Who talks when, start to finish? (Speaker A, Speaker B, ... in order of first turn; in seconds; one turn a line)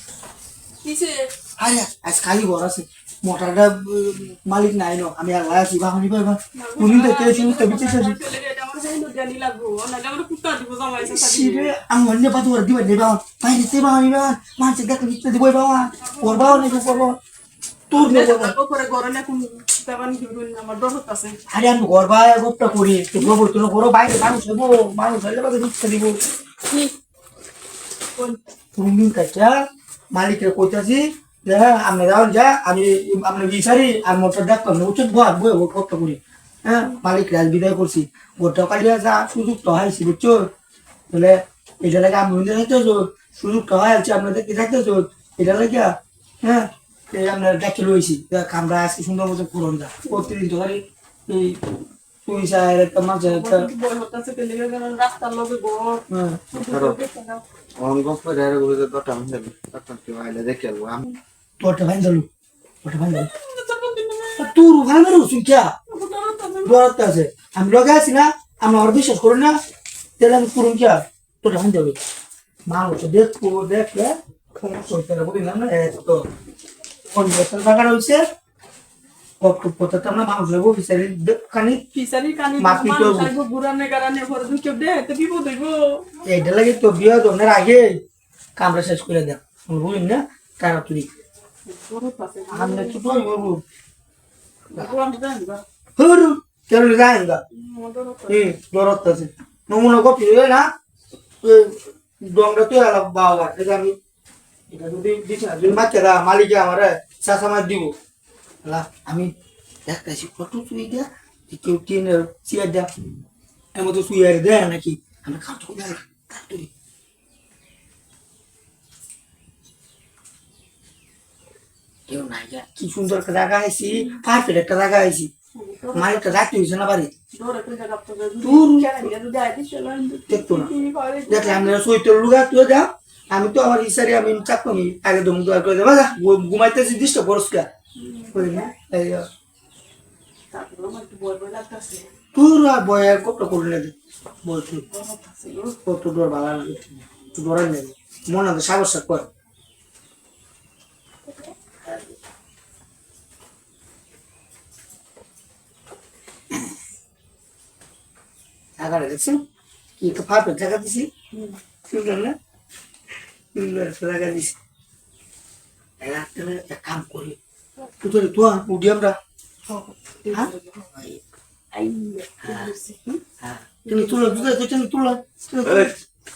Speaker A: 0.8-1.3
Speaker B: 1.6-8.2
Speaker A: 6.5-11.7
Speaker B: 11.0-17.2
Speaker A: 15.8-17.1
Speaker B: 17.9-18.5
Speaker A: 17.9-21.4
Speaker B: 21.5-26.2
Speaker B: 28.8-40.5
Speaker B: 41.1-51.7
Speaker B: 52.2-53.7
Speaker A: 53.2-57.4
Speaker B: 56.1-56.4
Speaker C: 56.5-57.0
Speaker C: 57.8-61.0
Speaker B: 61.6-62.3
Speaker B: 62.8-63.3
Speaker A: 63.1-64.5
Speaker B: 64.4-65.7
Speaker A: 65.9-66.8
Speaker B: 66.6-69.6
Speaker B: 70.2-72.0
Speaker B: 72.7-76.2
Speaker B: 77.1-78.2
Speaker B: 79.4-81.8
Speaker A: 81.9-86.0
Speaker B: 82.6-83.3
Speaker B: 86.2-88.0
Speaker B: 88.5-91.1
Speaker A: 91.7-93.0
Speaker B: 92.5-93.6
Speaker A: 94.7-95.6
Speaker B: 96.0-97.4
Speaker A: 97.5-98.4
Speaker B: 98.3-100.7
Speaker B: 101.4-104.0
Speaker B: 104.7-107.9
Speaker B: 108.6-109.3
Speaker B: 109.8-112.9
Speaker B: 113.7-116.7
Speaker B: 122.1-125.3
Speaker A: 123.9-124.2
Speaker A: 125.5-126.5
Speaker B: 125.9-127.1
Speaker A: 127.3-131.8
Speaker B: 128.4-129.1
Speaker B: 130.3-130.7
Speaker B: 131.3-137.7
Speaker A: 137.9-138.7
Speaker B: 138.3-139.2
Speaker A: 140.5-142.1
Speaker B: 142.3-144.8
Speaker A: 144.9-145.8
Speaker B: 145.8-149.3
Speaker B: 158.8-159.4
Speaker B: 160.0-161.1
Speaker A: 161.3-161.6
Speaker B: 161.9-162.3
Speaker B: 163.5-164.6
Speaker B: 166.0-167.4
Speaker B: 168.0-169.2
Speaker A: 169.7-170.9
Speaker B: 170.3-171.2
Speaker A: 171.7-173.2
Speaker B: 172.4-172.7
Speaker B: 173.4-175.9
Speaker A: 173.8-174.5